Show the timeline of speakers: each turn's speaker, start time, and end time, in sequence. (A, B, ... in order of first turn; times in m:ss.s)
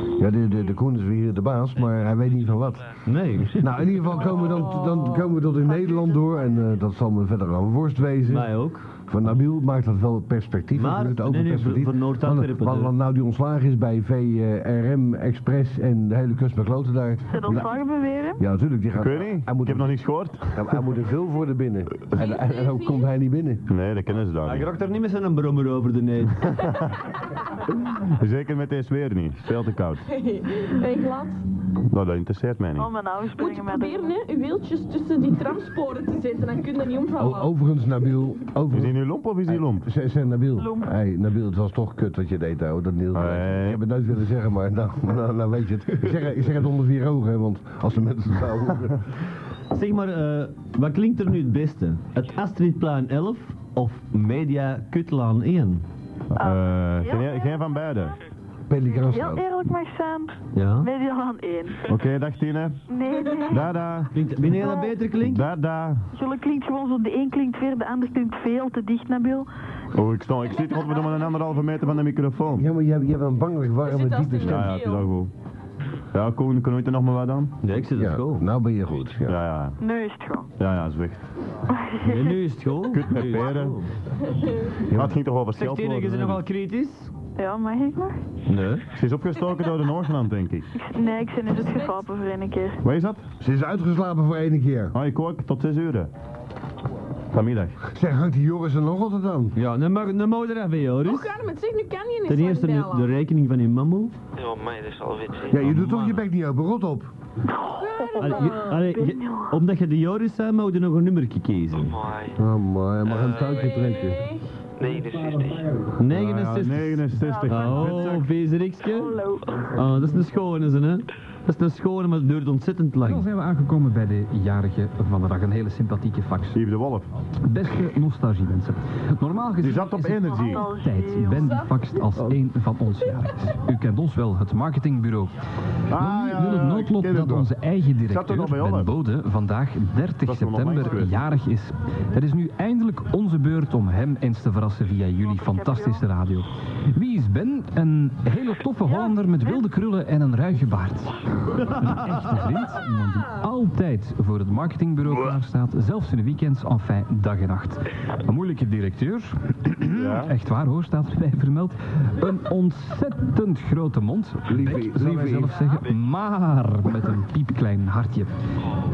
0:00.2-0:02.9 A
0:01.8-0:03.0 B
0:03.0-0:03.7 C
0:03.6-0:08.5 A
0:04.5-0:05.3 D
0:04.8-0:06.7 E
0:08.3-0:08.9 C
0:09.1-0:17.8 A
0:10.8-0:12.9 C
0:17.3-0:18.4 E
0:18.4-0:19.9 A
0:19.0-0:20.7 F
0:20.5-0:23.6 A
0:22.1-0:23.1 D
0:23.7-0:24.7 F
0:24.4-0:26.5 C
0:26.4-0:27.1 F
0:27.9-0:30.0 F
0:30.1-0:31.4 D
0:31.9-0:32.9 F
0:32.8-0:34.1 E
0:33.4-0:37.5 D
0:37.2-0:49.0 A
0:38.7-0:39.9 F
0:40.6-0:40.9 E
0:43.2-0:43.8 F
0:49.7-0:55.8 C
0:56.3-0:58.2 F
0:56.4-0:58.0 E
0:58.7-0:59.5 A
0:58.9-1:01.9 E
1:00.6-1:00.9 C
1:01.9-1:02.8 F
1:02.9-1:03.7 E
1:03.4-1:04.1 F
1:04.1-1:05.5 C
1:05.2-1:06.1 F
1:06.1-1:09.5 E
1:09.9-1:12.7 F
1:12.6-1:14.8 A
1:13.8-1:15.1 D
1:14.4-1:15.3 F
1:16.1-1:17.5 F
1:17.6-1:18.5 C
1:18.0-1:19.4 A
1:19.3-1:19.8 F
1:19.8-1:20.5 E
1:20.6-1:21.2 F
1:21.7-1:22.4 E
1:22.0-1:23.9 C
1:22.9-1:23.8 F
1:24.9-1:26.4 F
1:24.9-1:25.2 A
1:25.6-1:27.1 C
1:27.4-1:28.2 E
1:28.5-1:28.9 C
1:28.9-1:30.7 F
1:30.8-1:32.8 E
1:31.0-1:32.0 D
1:32.8-1:33.2 F
1:33.4-1:35.0 A
1:34.9-1:36.1 F
1:37.3-1:37.8 F
1:37.9-1:39.6 A
1:39.6-1:41.4 C
1:41.0-1:43.1 D
1:42.3-1:44.1 C
1:44.4-1:45.6 B
1:45.5-1:47.1 A
1:45.6-1:46.2 C
1:47.6-1:49.6 E
1:47.8-1:48.8 D
1:48.2-1:52.0 C
1:51.7-1:52.4 B
1:52.4-1:54.2 A
1:53.0-1:53.7 B
1:53.6-1:54.5 D
1:54.8-1:55.8 B
1:56.0-1:59.2 C
1:56.1-1:58.3 F
1:57.2-1:58.0 E
1:58.9-1:59.5 E
1:59.7-2:03.3 C
2:03.0-2:06.6 G
2:06.5-2:07.1 F
2:07.5-2:15.3 G
2:09.6-2:10.7 F
2:10.3-2:11.4 E
2:11.3-2:12.0 D
2:15.9-2:17.5 F
2:15.9-2:31.2 G
2:18.1-2:18.9 F
2:20.3-2:21.2 F
2:25.2-2:26.1 E
2:28.9-2:29.6 E
2:31.8-2:48.3 G
2:39.9-2:40.4 F
2:44.5-2:45.7 A